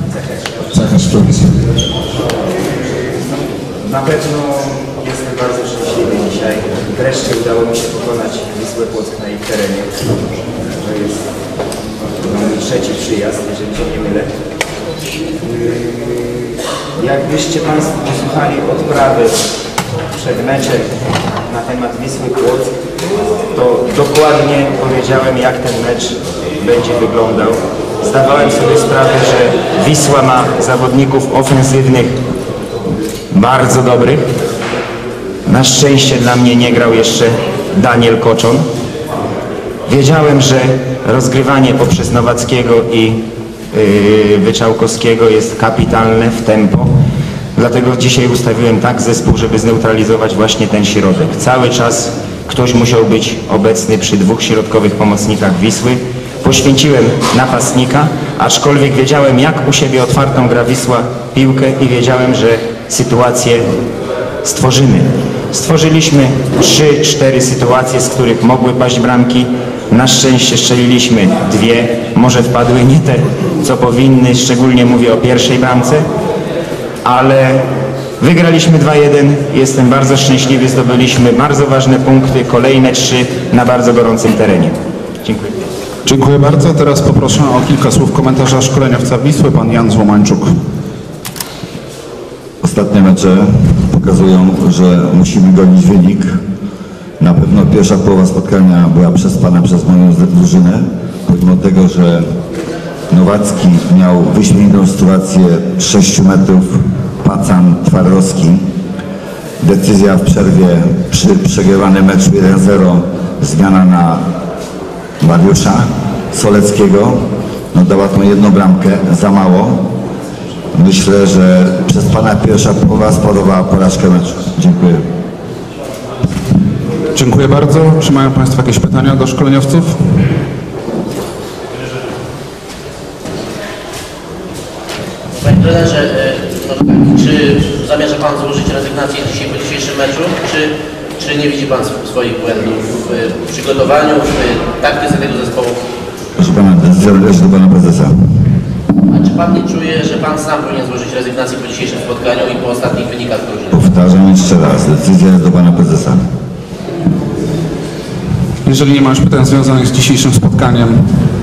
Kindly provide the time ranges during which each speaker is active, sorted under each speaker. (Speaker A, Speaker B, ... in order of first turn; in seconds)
Speaker A: 0.1-0.4, 3.3-10.1, 10.7-11.3, 12.2-14.3, 15.4-16.3, 17.0-19.4, 20.1-20.9, 21.5-22.7, 23.5-32.2, 33.3-34.3, 35.5-38.6, 39.9-43.2, 43.7-46.9, 47.6-63.7, 64.4-76.0, 77.0-77.6, 78.2-85.5
Speaker B: 0.7-1.6, 86.0-90.5, 127.1-130.1, 158.6-161.3
Speaker C: 92.6-96.4, 97.2-102.2, 103.1-108.7, 109.6-114.2, 115.2-117.2, 117.7-119.8, 120.8-125.0, 146.4-148.2, 153.7-156.2
Speaker D: 135.3-145.8, 149.1-153.8